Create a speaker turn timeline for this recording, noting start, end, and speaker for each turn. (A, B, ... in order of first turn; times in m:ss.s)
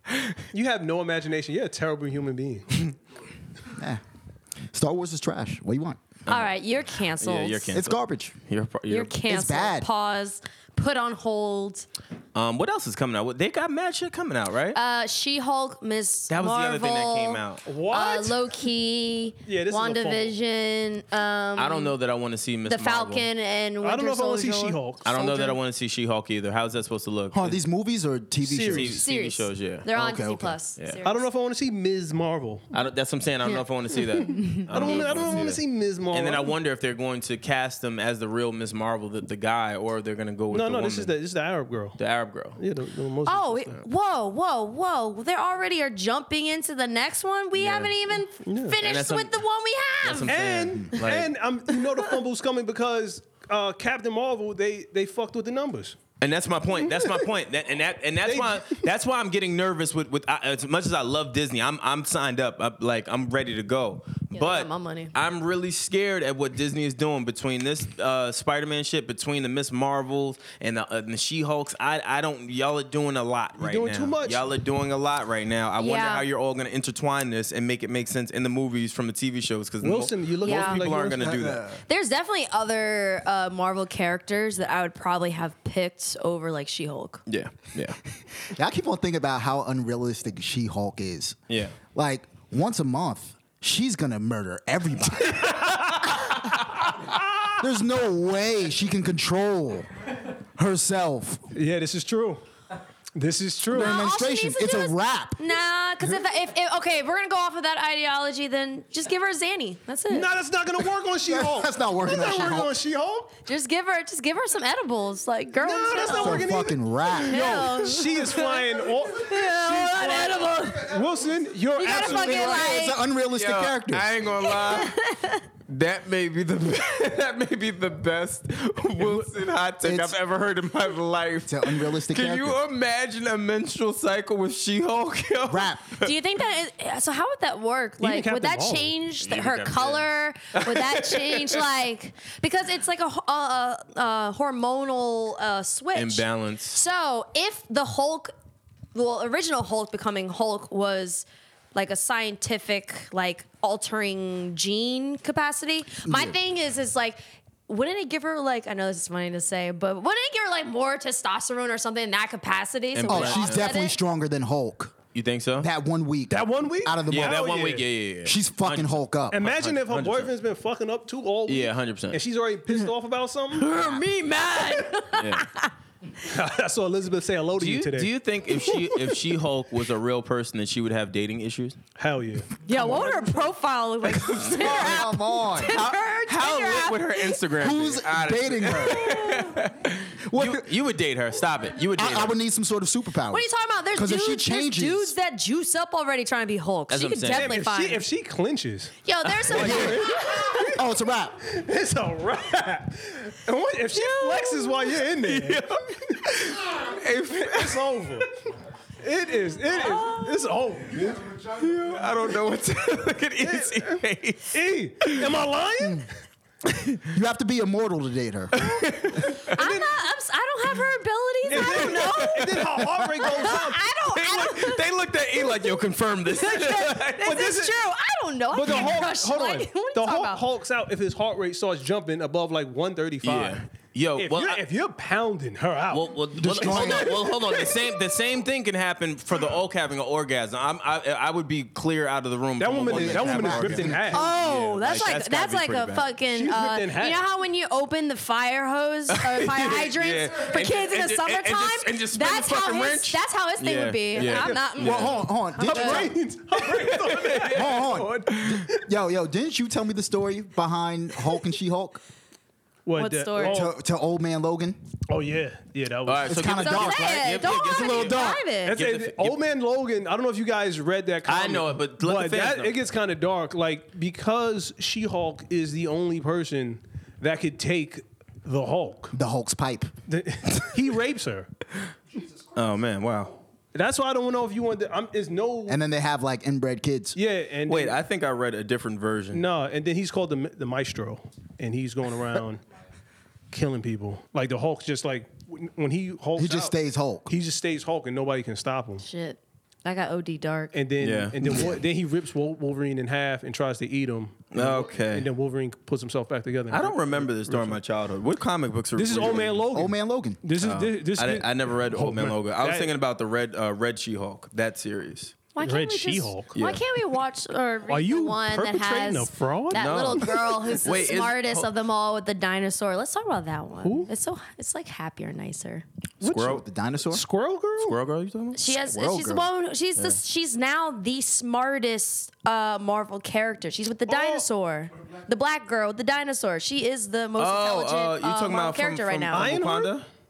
0:00.5-0:02.9 A
0:03.8-0:04.0 B
0:04.7-0:06.0 B
0:06.3-0:07.8 C
0:07.2-0:09.2 D
0:07.7-0:08.4 B
0:08.9-0:11.9 C
0:09.3-0:09.9 B
0:12.4-0:14.8 D
0:14.7-0:22.0 C
0:16.3-0:17.6 D
0:17.7-0:18.4 A
0:19.5-0:20.4 A
0:21.6-0:23.3 D
0:22.7-0:25.4 C
0:23.8-0:25.5 A
0:25.0-0:27.6 D
0:27.3-0:29.0 B
0:28.4-0:28.9 A
0:28.6-0:29.9 D
0:29.0-0:31.3 C
0:29.9-0:30.6 B
0:31.0-0:32.7 A
0:32.7-0:41.1 D
0:34.2-0:35.4 C
0:34.7-0:36.6 A
0:40.5-0:42.0 A
0:42.0-0:42.6 D
0:42.6-0:43.8 A
0:43.3-0:50.3 C
0:47.6-0:48.0 D
0:48.4-0:48.8 A
0:48.8-0:49.4 D
0:50.0-0:51.3 D
0:50.3-0:56.0 A
0:56.2-1:21.8 D
0:58.2-0:58.8 A
1:04.3-1:05.1 C
1:13.6-1:14.5 A
1:15.8-1:16.2 C
1:19.8-1:21.3 A
1:20.4-1:20.8 C
1:21.2-1:21.8 B
1:21.9-1:27.2 C
1:27.3-1:28.0 D
1:28.4-1:31.4 B
1:31.5-1:31.8 D
1:31.9-1:36.0 B
1:37.6-1:39.9 B
1:40.6-1:41.5 B
1:41.5-1:42.4 A
1:43.2-1:44.0 A
1:43.7-1:45.4 B
1:43.7-1:50.3 C
1:50.1-1:53.3 A
1:51.3-1:52.8 B
1:53.4-1:56.5 C
1:55.6-2:02.7 A
1:56.0-1:57.8 B
1:57.3-2:01.0 C
2:01.8-2:03.0 C
2:01.9-2:04.2 B
2:03.3-2:05.0 D
2:04.4-2:05.4 C
2:05.7-2:16.1 D
2:09.8-2:10.2 B
2:11.5-2:12.6 B
2:15.5-2:16.0 B
2:16.0-2:28.3 C
2:18.0-2:18.9 A
2:19.2-2:21.6 D
2:25.9-2:26.8 D
2:28.9-2:44.0 C
2:36.0-2:36.4 B
2:43.0-2:43.7 D
2:43.1-2:45.0 B
2:45.1-2:45.7 D
2:45.6-2:47.4 B
2:46.3-2:47.8 A
2:47.1-2:50.3 D
2:48.2-2:49.4 B
2:49.3-2:53.7 A
2:51.5-2:52.2 D
2:53.6-2:55.7 C
2:53.7-2:54.1 D
2:55.1-2:55.5 D
2:56.2-2:58.1 A
2:57.6-3:01.8 D
3:02.0-3:03.3 A
3:02.6-3:07.4 C
3:04.2-3:04.9 D
3:04.4-3:06.0 B
3:06.3-3:12.4 D
3:07.6-3:09.2 B
3:08.9-3:09.5 C
3:10.2-3:10.7 B
3:12.0-3:15.1 B
3:13.3-3:18.0 C
3:16.9-3:17.6 D
3:17.3-3:19.0 A
3:19.0-3:20.8 C
3:19.3-3:20.0 D
3:19.5-3:20.7 A
3:19.5-3:21.4 B
3:21.4-3:26.2 A
3:23.9-3:24.8 C
3:25.1-3:27.9 D
3:27.4-3:28.4 A
3:29.0-3:31.3 A
3:29.8-3:30.4 C
3:31.4-3:35.3 D
3:33.4-3:36.1 A
3:36.7-3:37.0 D
3:37.1-3:38.6 B
3:38.5-3:39.6 D
3:39.5-3:42.5 C
3:39.5-3:39.9 A
3:41.5-3:43.8 A
3:41.5-3:42.8 D
3:43.2-3:44.8 C
3:44.1-3:47.4 D
3:46.4-3:50.4 C
3:47.2-3:47.8 A
3:48.5-3:53.6 A
3:53.2-3:54.6 D
3:54.2-3:57.2 A
3:55.9-4:06.1 D
3:56.4-3:57.4 B
4:02.6-4:04.2 A
4:02.8-4:04.2 B
4:04.1-4:16.1 C
4:06.3-4:07.2 A
4:09.1-4:15.2 D
4:14.2-4:14.7 A
4:14.8-4:16.2 B
4:15.6-4:18.8 A
4:16.7-4:18.6 D
4:17.4-4:22.0 B
4:22.8-4:23.7 A
4:23.0-4:23.6 C
4:23.4-4:24.8 B
4:25.1-4:26.5 A
4:26.1-4:29.4 D
4:26.3-4:28.4 B
4:26.5-4:28.8 C
4:28.6-4:39.2 A
4:31.2-4:32.9 D
4:39.1-4:39.9 B
4:40.1-4:41.5 A
4:42.5-4:43.4 D
4:43.7-4:45.8 A
4:45.7-4:47.2 B
4:47.2-4:48.0 A
4:47.7-4:49.4 D
4:49.3-4:52.6 A
4:53.5-4:56.7 A
4:56.4-4:57.3 B
4:57.3-4:59.0 A
4:59.0-5:00.8 C
5:00.7-5:07.8 A
5:01.0-5:01.7 D
5:01.4-5:01.8 B
5:04.5-5:05.3 D
5:06.7-5:09.6 D
5:09.0-5:12.9 A
5:09.7-5:10.4 B
5:10.6-5:15.4 D
5:15.6-5:25.8 C
5:15.6-5:16.5 A
5:16.5-5:16.8 D
5:17.9-5:20.6 A
5:19.7-5:21.7 D
5:23.8-5:24.1 A
5:26.2-5:26.6 D
5:26.2-5:28.0 A
5:26.4-5:27.2 B
5:27.8-5:28.6 D
5:28.5-5:39.6 C
5:28.7-5:29.5 B
5:34.1-5:34.4 A
5:37.4-5:40.0 D
5:39.3-5:40.1 A